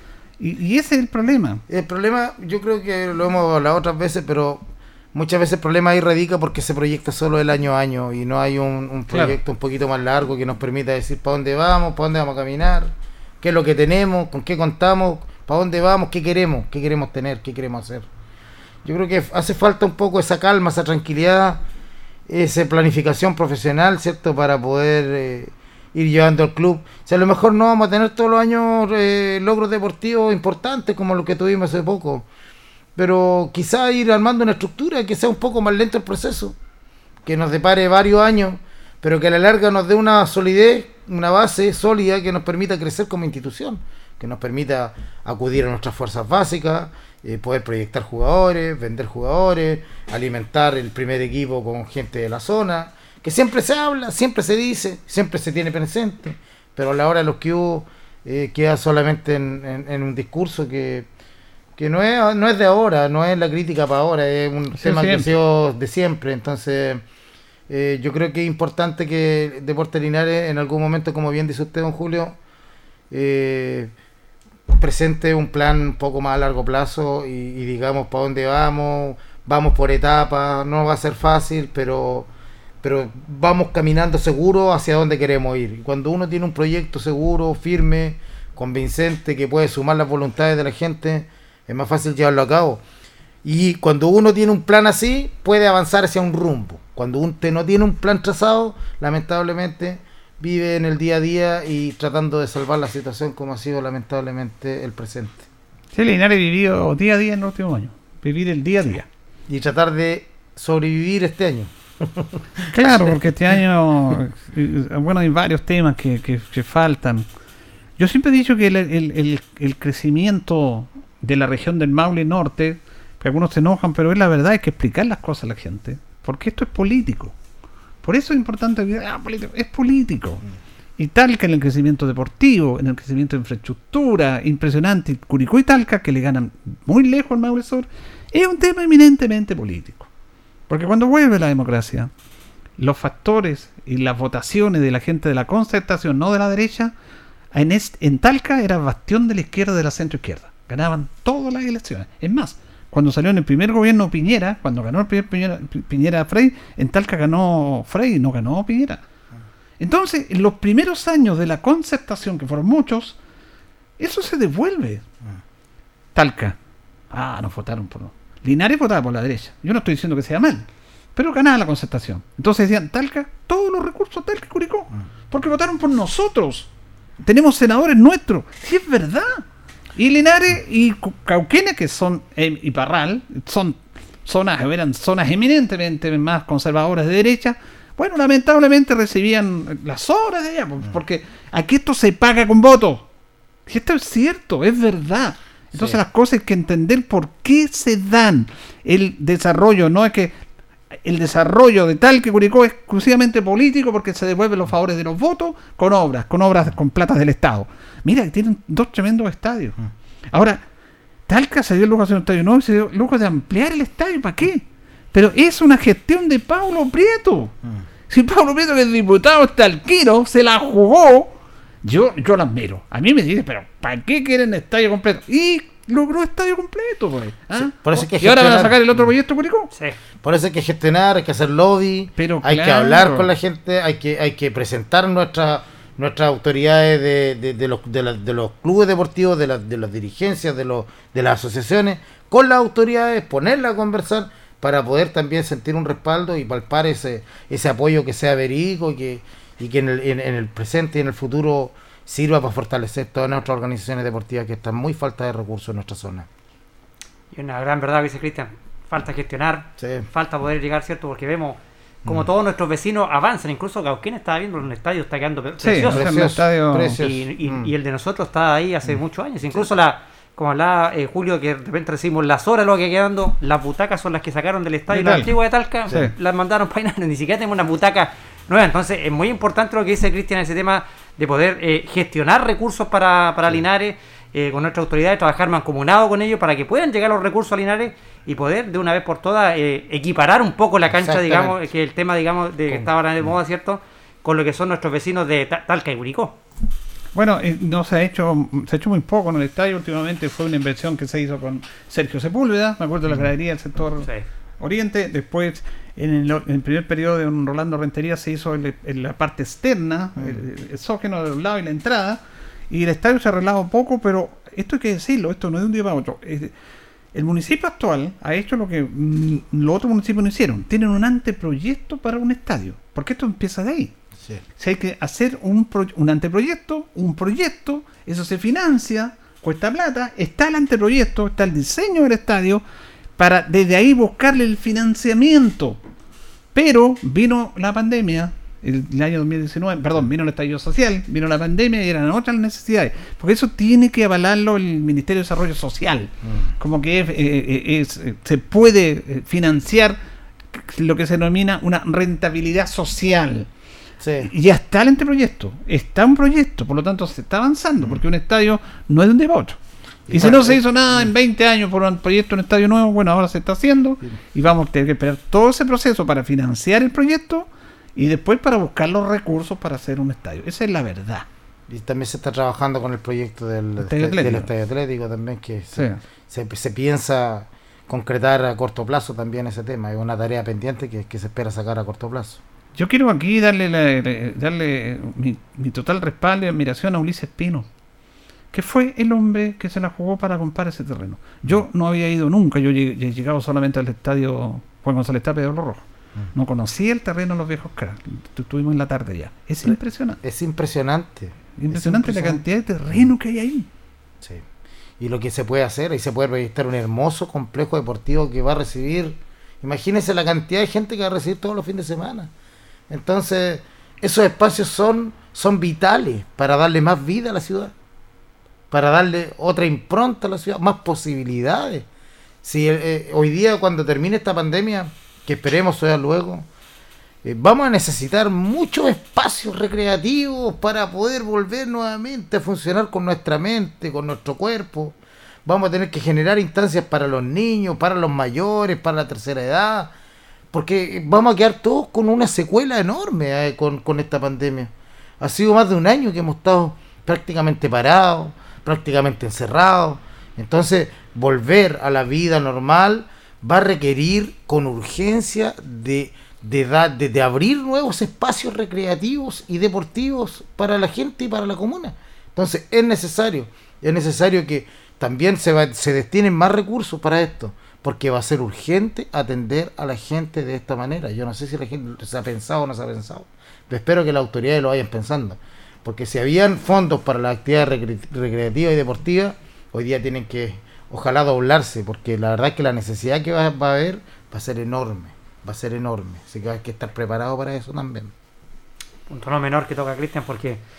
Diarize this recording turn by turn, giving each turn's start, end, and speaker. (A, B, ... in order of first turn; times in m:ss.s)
0:00.4-0:01.6 A
0:01.7-0:18.1 B
0:09.1-0:09.4 A
0:18.8-0:21.6 B
0:22.3-0:32.3 B
0:33.0-0:36.6 B
0:37.2-1:01.1 B
1:01.8-1:07.0 B
1:04.8-1:05.3 A
1:07.7-1:12.4 B
1:13.1-1:13.9 B
1:14.7-1:22.3 B
1:22.8-1:32.8 B
1:33.4-1:45.5 B
1:46.0-1:49.1 A
1:49.5-1:52.4 B
1:52.7-1:57.2 A
1:58.0-2:07.3 A
2:08.0-2:10.4 A
2:11.0-2:20.1 A
2:20.7-2:22.1 A
2:22.8-2:26.9 A
2:27.5-2:39.0 A
2:39.8-2:43.2 A
2:44.0-2:45.0 A
2:46.2-2:46.6 A
2:47.1-2:56.7 A
2:57.2-2:59.4 A
3:00.0-3:13.1 A
3:13.7-3:20.4 A
3:15.7-3:16.0 B
3:21.0-3:29.8 A
3:30.3-3:30.6 A
3:31.3-3:37.5 A
3:38.1-3:49.7 A
3:47.6-3:49.1 B
3:50.2-4:16.3 B
3:52.2-3:53.3 A
4:17.3-4:26.1 C
4:19.8-4:20.1 B
4:25.6-4:27.0 A
4:25.8-4:27.7 B
4:27.0-4:56.4 C
4:34.9-4:35.3 A
4:50.9-4:51.6 B
4:57.2-5:04.1 A
5:04.6-5:16.5 A
5:17.1-5:24.0 A
5:24.6-5:32.6 A
5:33.2-5:35.8 A
5:36.5-5:50.0 A
5:46.2-5:46.5 B
5:50.5-5:53.5 A
5:54.0-5:54.3 B
5:54.2-5:59.6 A
6:00.1-6:01.1 B
6:00.1-6:11.3 A
6:11.7-6:22.4 B
6:13.8-6:14.5 A
6:15.7-6:16.0 A
6:22.8-6:27.7 A
6:28.5-6:40.2 A
6:39.6-6:43.1 B
6:41.6-6:43.7 A
6:45.0-6:52.3 B
6:52.9-6:57.7 B
6:58.7-7:01.9 B
7:02.4-7:06.5 B
7:07.2-7:19.9 B
7:20.5-8:08.1 B
8:09.1-8:10.6 C